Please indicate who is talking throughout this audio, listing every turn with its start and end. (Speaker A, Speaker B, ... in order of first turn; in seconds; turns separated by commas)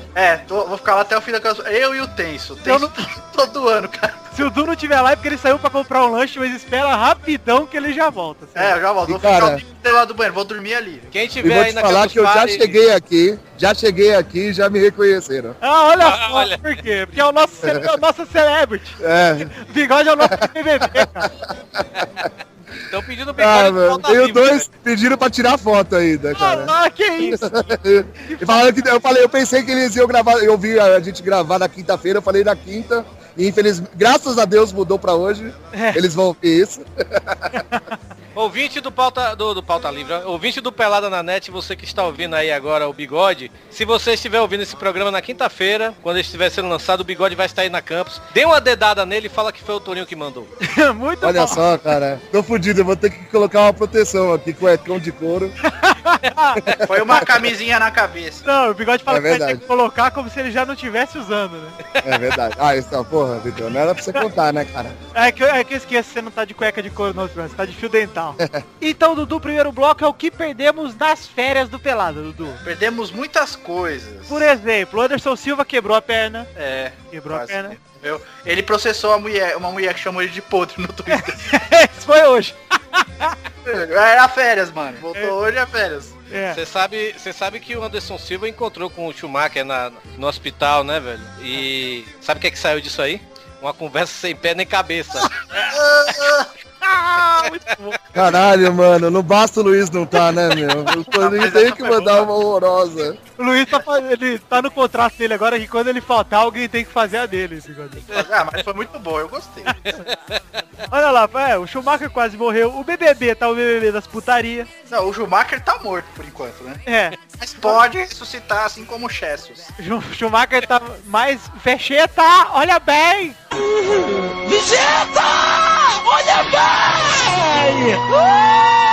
Speaker A: 0.1-4.3, Speaker B: 2.6-3.0, Speaker B: 4.3-8.8, Speaker A: 8.6-11.1, Speaker C: 9.0-9.6, Speaker D: 11.1-12.8, Speaker C: 11.4-15.6, Speaker B: 15.6-19.0, Speaker D: 16.0-16.6, Speaker C: 17.6-17.9, Speaker C: 19.0-19.5, Speaker B: 19.6-21.3, Speaker C: 20.2-22.3, Speaker D: 22.9-24.7, Speaker C: 23.4-37.6, Speaker B: 26.3-27.4, Speaker B: 28.3-28.7, Speaker B: 35.7-36.0, Speaker B: 37.5-37.8, Speaker D: 38.4-50.5, Speaker B: 50.6-51.7, Speaker C: 51.2-55.5, Speaker B: 55.6-57.2, Speaker C: 56.6-57.2, Speaker A: 56.8-58.5, Speaker B: 58.5-61.8, Speaker C: 59.1-59.6, Speaker D: 61.9-62.3, Speaker C: 62.0-65.0, Speaker B: 65.1-72.6, Speaker A: 72.6-74.5, Speaker B: 74.3-76.5, Speaker A: 76.5-81.4, Speaker B: 77.1-77.8, Speaker B: 81.1-83.4, Speaker A: 83.6-86.2, Speaker B: 85.1-85.3, Speaker B: 86.3-86.6, Speaker D: 86.5-95.3, Speaker B: 95.5-95.8, Speaker A: 95.6-96.5, Speaker B: 96.8-98.0, Speaker C: 98.1-103.2, Speaker A: 101.0-102.3, Speaker B: 103.4-108.1, Speaker A: 108.1-109.8, Speaker D: 109.8-110.4, Speaker B: 110.9-114.7, Speaker A: 114.9-116.8, Speaker B: 116.8-117.8, Speaker A: 117.4-119.7, Speaker B: 119.8-123.4